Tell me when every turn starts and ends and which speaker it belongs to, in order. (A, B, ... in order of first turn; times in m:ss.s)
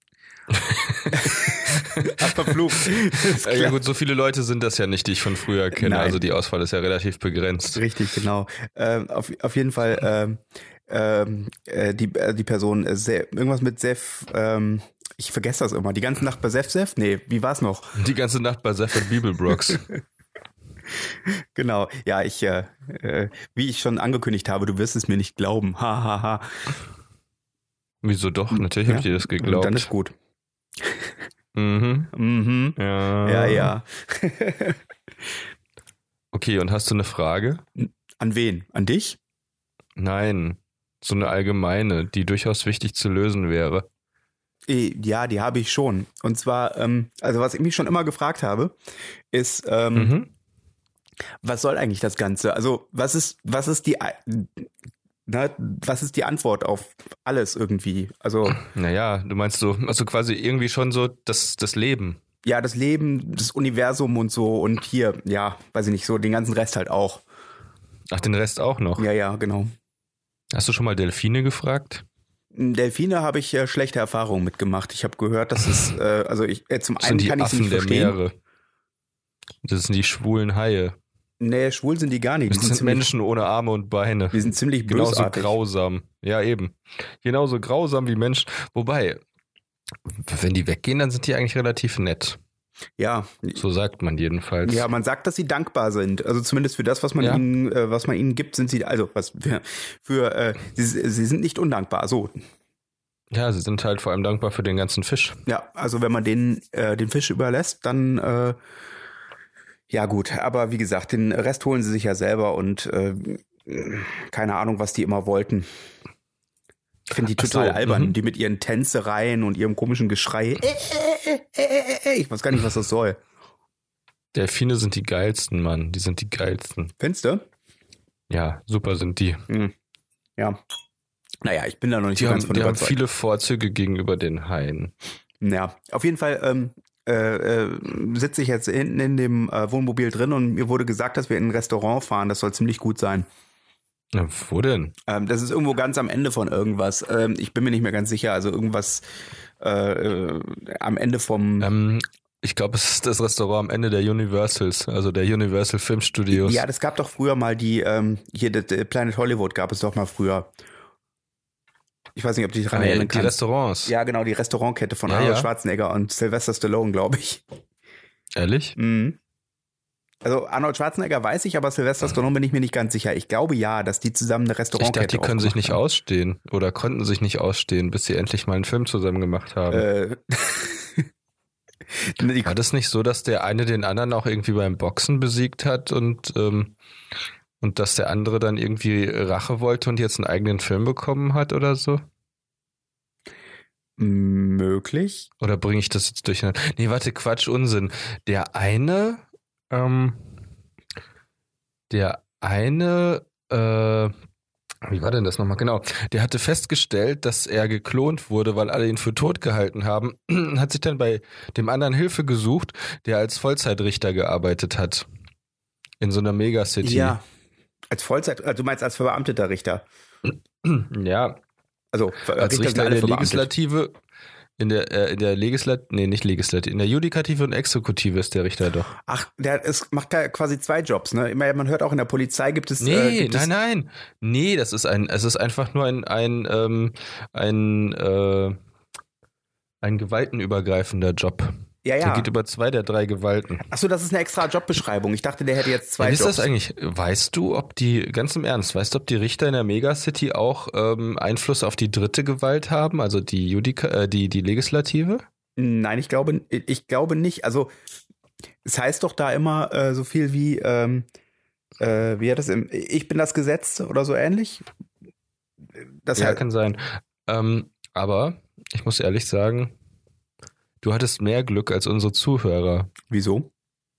0:00.5-0:07.8 A
0:01.1-0:03.8 B
0:05.8-0:06.2 B
0:07.8-0:18.0 B
0:18.0-0:19.8 A
0:21.6-0:26.6 B
0:28.0-0:29.9 A
0:28.6-0:30.1 B
0:30.8-0:31.1 B
0:31.6-0:32.1 A
0:32.1-0:34.8 B
0:32.8-0:33.7 A
0:36.3-0:37.6 A
0:37.8-0:39.2 B
0:40.0-0:43.9 A
0:44.7-0:48.8 B
0:49.3-0:50.1 B
0:50.0-0:50.3 A
0:51.4-0:54.7 B
0:55.3-0:58.6 B
0:58.5-1:02.2 A
1:02.4-1:07.2 B
1:08.1-1:09.0 A
1:09.0-1:09.7 B
1:10.5-1:12.0 A
1:12.6-1:18.2 B
1:17.0-1:18.3 A
1:19.6-1:21.0 A
1:21.4-1:23.1 B
1:22.5-1:29.2 A
1:24.3-1:25.6 B
1:30.1-1:32.4 A
1:33.0-1:33.6 B
1:33.6-1:34.9 A
1:34.6-1:42.4 B
1:43.3-1:45.4 A
1:45.5-1:48.6 B
1:49.9-1:55.7 B
1:57.1-2:03.2 B
1:57.4-1:58.2 A
2:04.3-2:06.9 A
2:07.0-2:07.4 B
2:08.3-2:09.5 A
2:11.4-2:13.0 B
2:12.2-2:14.9 A
2:15.4-2:23.3 B
2:24.1-2:25.0 A
2:25.1-2:29.0 B
2:29.6-2:31.7 B
2:31.6-2:36.6 A
2:36.3-2:40.5 B
2:42.2-2:47.4 B
2:42.7-2:43.9 A
2:45.1-2:45.5 A
2:48.4-2:48.8 A
2:48.8-2:49.2 B
2:50.2-2:55.8 B
2:54.8-2:59.8 A
2:59.7-3:01.1 B
3:02.0-3:02.6 B
3:02.4-3:06.8 A
3:07.6-3:12.0 A
3:14.0-3:15.3 B
3:15.4-3:20.4 A
3:21.9-3:24.1 A
3:24.8-3:35.1 A
3:36.0-3:37.2 A
3:36.8-3:37.2 B
3:37.9-3:39.8 B
3:40.6-3:41.4 A
3:41.9-3:43.5 B
3:42.4-3:44.0 A
3:44.6-3:48.9 A
3:49.0-3:53.5 B
3:52.8-3:58.6 A
3:59.8-4:03.6 A
4:01.8-4:02.3 B
4:03.7-4:06.5 B
4:06.0-4:15.2 A
4:15.6-4:17.7 B
4:18.6-4:21.1 B
4:21.8-4:24.6 B
4:26.1-4:26.4 B
4:26.2-4:29.7 A
4:30.8-4:32.9 A
4:33.1-4:33.5 B